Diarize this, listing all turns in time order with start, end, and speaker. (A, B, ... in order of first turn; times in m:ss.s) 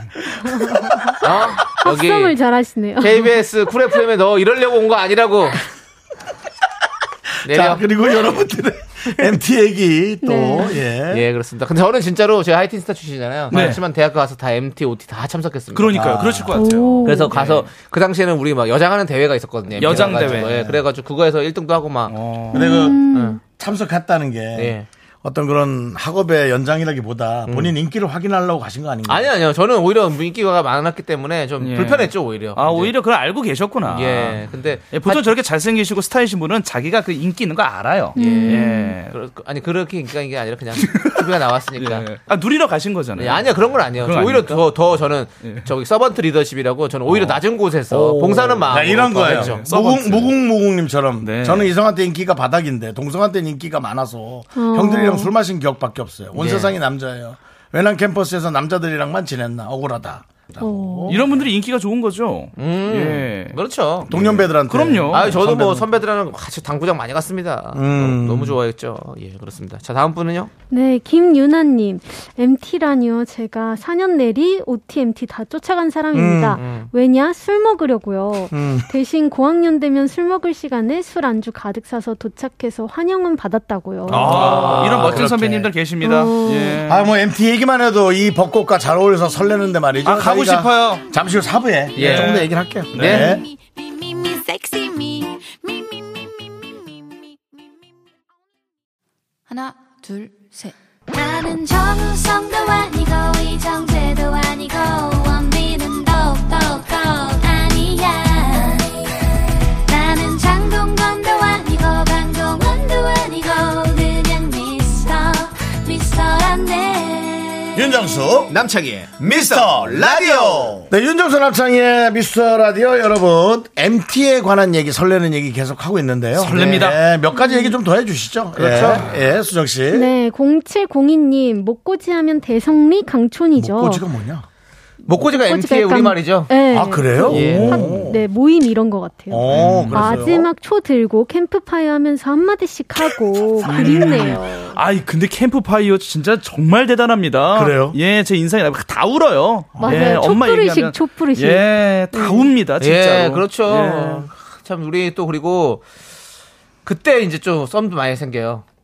0:00.5-0:03.5 A
0:01.2-0:02.3 B
0:03.0-0:05.6 B
0:07.4-0:07.8 B
0:07.4-0:11.2 C
0:10.2-0:10.8 A
0:11.1-0:16.1 B
0:13.5-0:13.8 D
0:15.7-0:17.7 D
0:15.9-0:16.6 C
0:16.5-0:17.3 A
0:17.0-0:23.4 B
0:19.8-0:20.7 D
0:20.3-0:20.7 C
0:22.1-0:22.6 D
0:22.5-0:23.4 A
0:22.5-0:29.3 C
0:24.5-0:24.9 B
0:27.5-0:27.7 B
0:29.1-0:32.9 B
0:31.6-0:39.1 D
0:33.8-0:35.3 B
0:38.1-0:39.0 A
0:38.2-0:42.1 B
0:40.8-0:41.2 D
0:41.8-0:44.7 D
0:43.2-0:49.6 B
0:45.4-0:45.7 D
0:47.1-0:50.4 D
0:48.7-1:01.3 C
0:51.2-0:51.7 D
0:54.6-0:55.3 A
0:56.4-0:56.7 B
1:00.6-1:01.2 A
1:01.1-1:03.6 D
1:02.6-1:04.1 B
1:04.1-1:05.4 D
1:04.1-1:05.8 C
1:05.1-1:10.5 B
1:07.7-1:08.6 C
1:10.7-1:24.4 A
1:16.1-1:16.6 C
1:16.6-1:16.9 B
1:18.5-1:18.9 C
1:24.0-1:25.7 C
1:24.1-1:27.0 D
1:24.2-1:25.2 B
1:26.0-1:26.8 A
1:26.8-1:33.5 C
1:30.0-1:31.1 D
1:32.0-1:33.3 B
1:32.0-1:33.4 D
1:41.1-1:49.0 E
1:49.9-1:57.9 E
1:57.7-1:58.6 C
1:58.5-2:00.9 B
1:59.2-2:10.1 C
2:06.4-2:07.0 D
2:07.3-2:07.8 A
2:08.5-2:09.1 B
2:09.9-2:14.0 A
2:13.6-2:14.4 C
2:15.0-2:16.5 B
2:15.1-2:24.8 A
2:16.7-2:18.2 C
2:17.2-2:17.8 B
2:17.4-2:18.0 D
2:19.3-2:20.5 C
2:19.5-2:20.3 D
2:23.6-2:34.3 D
2:27.5-2:28.0 C
2:29.8-2:30.2 C
2:29.8-2:32.5 A
2:32.8-2:35.8 B
2:36.8-2:38.6 B